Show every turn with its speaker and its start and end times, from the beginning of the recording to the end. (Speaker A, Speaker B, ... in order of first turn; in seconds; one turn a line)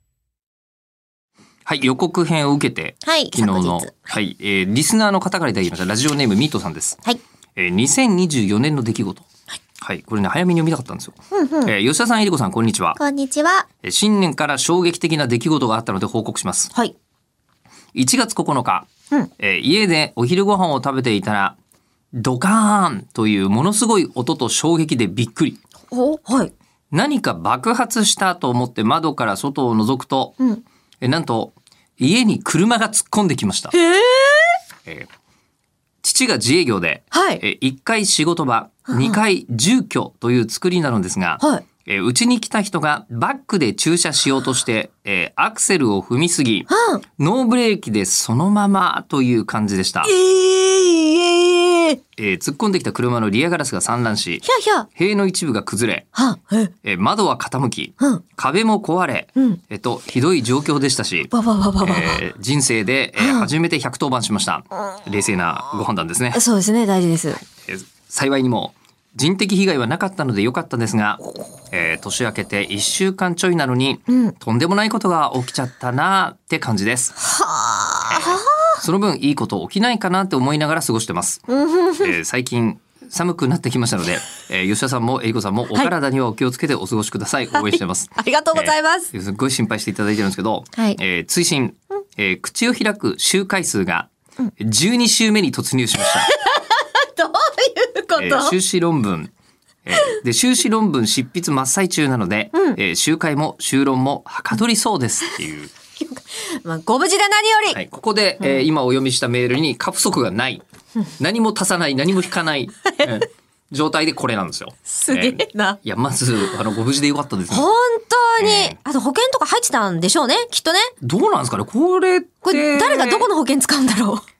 Speaker A: 1.6-7.0
Speaker B: 3.0-4.0
Speaker A: 7.5-9.3
Speaker A: 9.8-13.0
Speaker B: 11.3-11.7
Speaker B: 13.0-13.7
Speaker A: 13.8-16.7
Speaker A: 17.9-21.6
Speaker A: 22.1-25.6
Speaker B: 25.9-26.5
Speaker A: 26.9-30.4
Speaker A: 31.0-33.8
Speaker B: 33.7-34.6
Speaker A: 36.0-50.1
Speaker B: 37.1-37.4
Speaker B: 38.9-39.2
Speaker B: 46.7-47.0
Speaker B: 50.0-52.0
Speaker A: 52.1-54.4
Speaker B: 54.4-54.9
Speaker A: 54.9-56.1
Speaker B: 56.1-56.7
Speaker A: 56.8-61.3
Speaker B: 61.3-62.2
Speaker A: 61.8-66.4
Speaker B: 63.2-63.5
Speaker B: 66.3-67.4
Speaker A: 67.4-77.2
Speaker B: 77.2-78.7
Speaker A: 78.0-81.4
Speaker B: 81.5-82.1
Speaker A: 82.0-96.3
Speaker B: 87.6-89.1
Speaker B: 96.3-98.5
Speaker A: 98.2-99.3
Speaker A: 99.8-105.7
Speaker B: 106.3-107.8
Speaker A: 107.7-110.6
Speaker A: 111.2-117.7
Speaker B: 114.9-115.8
Speaker B: 117.5-120.9
Speaker A: 118.4-118.8
Speaker A: 121.0-123.3
Speaker B: 122.4-124.2